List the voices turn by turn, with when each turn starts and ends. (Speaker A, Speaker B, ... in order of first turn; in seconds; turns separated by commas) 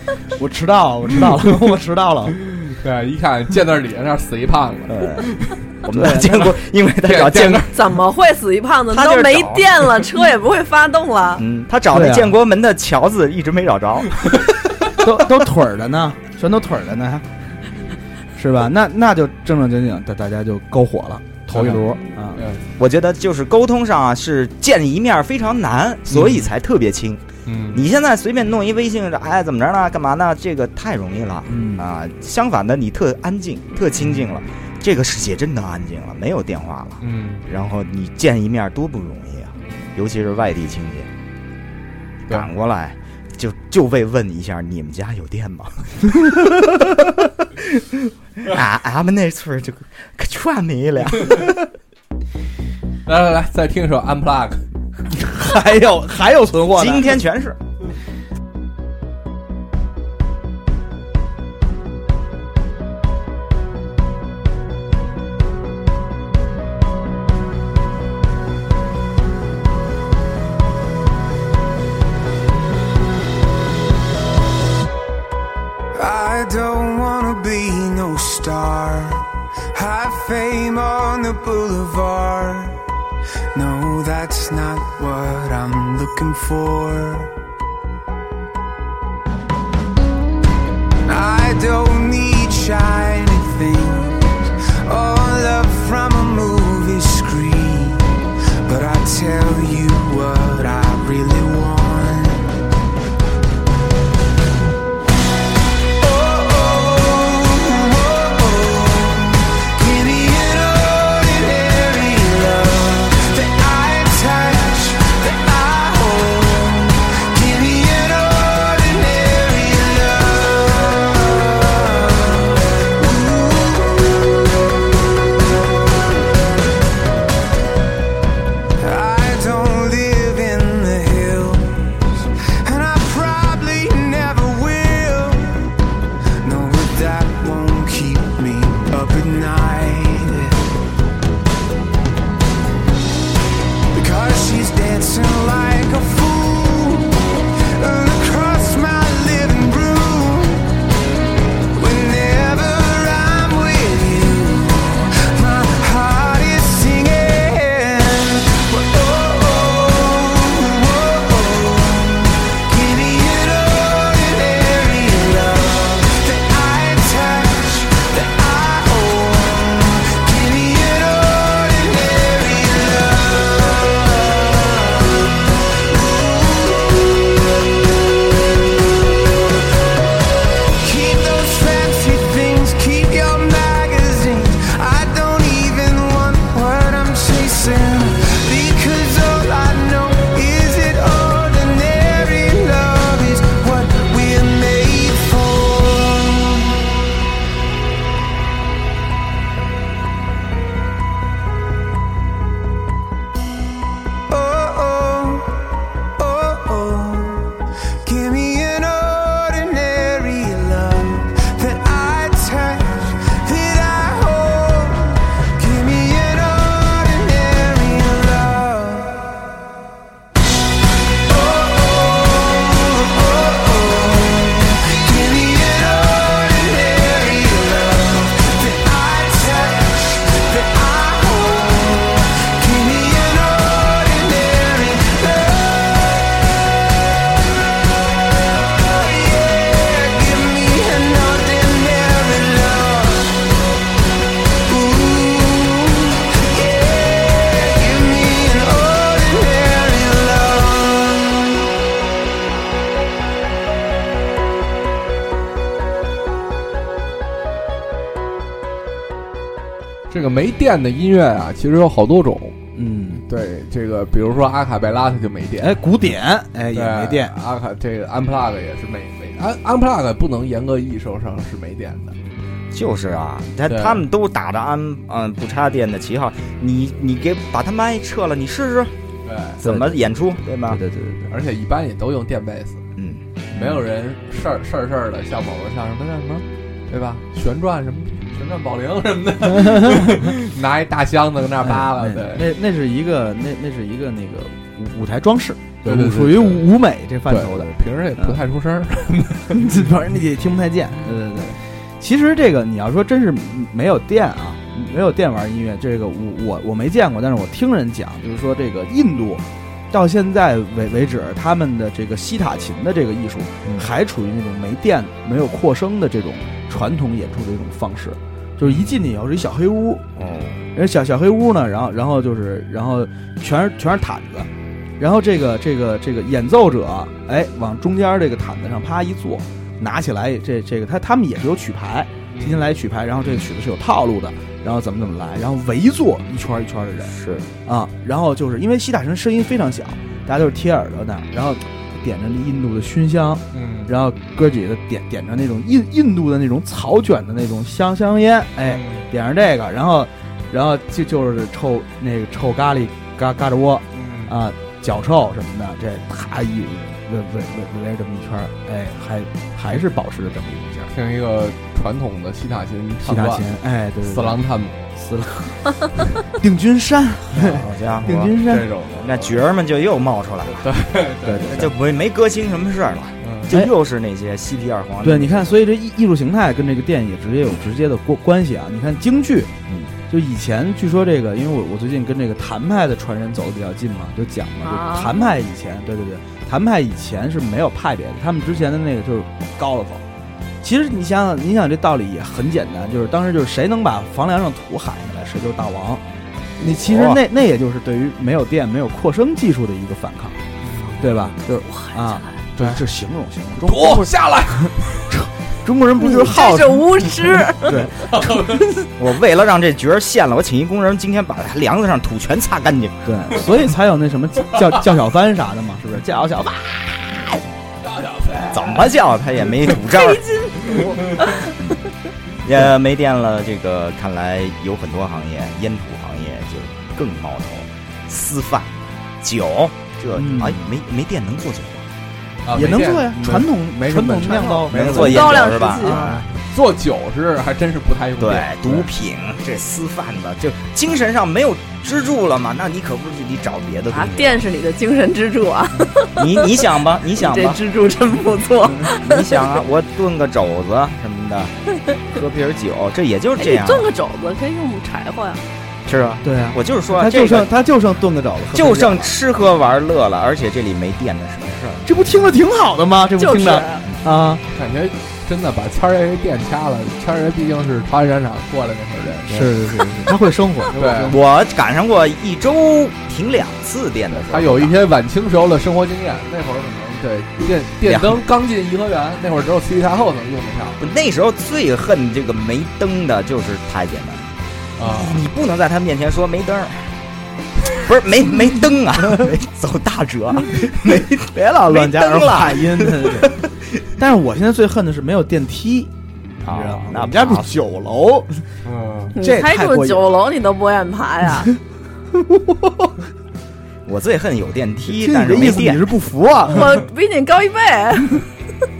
Speaker A: 0.3-2.4, Speaker B: 2.6-5.4, Speaker C: 4.9-7.7, Speaker A: 5.9-6.5, Speaker B: 7.1-7.6, Speaker D: 7.7-11.4, Speaker C: 8.9-10.0, Speaker C: 11.4-14.3, Speaker A: 11.9-12.4, Speaker A: 14.9-17.3, Speaker A: 18.4-22.4, Speaker B: 21.5-21.8, Speaker B: 22.4-22.6, Speaker C: 22.8-41.1, Speaker B: 26.1-26.5, Speaker B: 27.5-27.8, Speaker A: 31.5-31.9, Speaker B: 37.0-37.5, Speaker C: 42.3-51.6, Speaker B: 53.1-54.6, Speaker A: 55.1-57.2, Speaker C: 56.7-57.6, Speaker E: 76.0-82.8, Speaker E: 83.5-87.3, Speaker E: 91.1-98.1, Speaker E: 98.7-102.5, Speaker E: 106.0-126.2, Speaker E: 128.8-135.7, Speaker E: 136.4-140.7, Speaker E: 143.9-150.7, Speaker E: 151.7-177.4, Speaker E: 180.7-196.8, Speaker E: 204.3-205.5, Speaker E: 206.2-219.2, Speaker E: 221.3-236.3, Speaker E: 238.3-243.4, Speaker E: 244.7-251.5, Speaker B: 260.1-262.6, Speaker A: 262.8-263.2, Speaker B: 263.3-265.8, Speaker A: 265.6-267.3, Speaker B: 266.7-272.1, Speaker C: 272.7-278.9, Speaker B: 273.7-274.0, Speaker B: 279.2-279.6, Speaker C: 279.6-280.8, Speaker A: 279.6-280.1, Speaker A: 280.7-281.3, Speaker B: 281.3-282.8, Speaker C: 283.0-283.2, Speaker A: 283.5-283.8, Speaker B: 283.6-292.5, Speaker A: 289.5-290.3, Speaker A: 291.6-298.4, Speaker B: 295.9-296.7, Speaker B: 297.3-299.7, Speaker A: 299.5-320.1, Speaker C: 320.2-320.6, Speaker A: 320.8-360.9, Speaker B: 332.4-332.6, Speaker C: 337.1-337.5, Speaker B: 343.5-343.9, Speaker B: 348.7-349.1, Speaker B: 353.9-354.4, Speaker B: 360.9-363.4, Speaker A: 363.0-364.4, Speaker B: 364.0-364.9, Speaker A: 364.9-368.7, Speaker B: 367.4-369.4, Speaker C: 367.5-368.4, Speaker C: 368.9-375.6, Speaker B: 370.5-371.7, Speaker A: 371.2-371.7, Speaker B: 373.2-373.5, Speaker A: 375.0-379.5, Speaker C: 379.7-379.9, Speaker A: 380.1-390.1, Speaker D: 384.6-385.3, Speaker A: 390.6-396.0, Speaker A: 396.6-400.4, Speaker C: 396.6-397.2, Speaker B: 400.6-401.1, Speaker A: 401.0-408.4, Speaker D: 401.5-402.4, Speaker B: 403.6-405.1, Speaker D: 406.0-407.9, Speaker B: 408.0-408.9, Speaker C: 409.0-413.1, Speaker A: 413.1-417.2, Speaker B: 417.8-418.9, Speaker C: 418.5-420.9, Speaker D: 419.9-421.7, Speaker C: 422.4-431.9, Speaker A: 430.1-430.6, Speaker B: 432.4-435.3, Speaker A: 432.5-436.3, Speaker D: 434.4-436.0, Speaker C: 434.7-436.0, Speaker B: 435.9-438.9, Speaker C: 438.2-444.4, Speaker D: 443.9-446.5, Speaker C: 446.2-447.6, Speaker D: 447.1-449.6, Speaker C: 449.0-453.9, Speaker D: 453.4-455.4, Speaker C: 455.9-457.5, Speaker A: 456.2-459.1, Speaker C: 458.5-461.9, Speaker A: 461.9-464.4, Speaker D: 463.2-463.8, Speaker B: 464.5-470.1, Speaker A: 469.3-471.2, Speaker B: 470.8-471.2, Speaker C: 471.1-474.8, Speaker B: 474.2-480.8, Speaker C: 477.8-478.2, Speaker C: 480.8-486.9, Speaker B: 484.8-485.2, Speaker C: 487.7-493.5, Speaker A: 490.5-493.4, Speaker A: 494.0-495.9, Speaker C: 496.4-497.5, Speaker A: 496.4-498.5, Speaker B: 498.6-499.1, Speaker D: 499.2-501.5, Speaker A: 499.2-500.1, Speaker A: 502.1-502.9, Speaker C: 503.9-505.9, Speaker A: 504.9-506.8, Speaker D: 506.5-508.3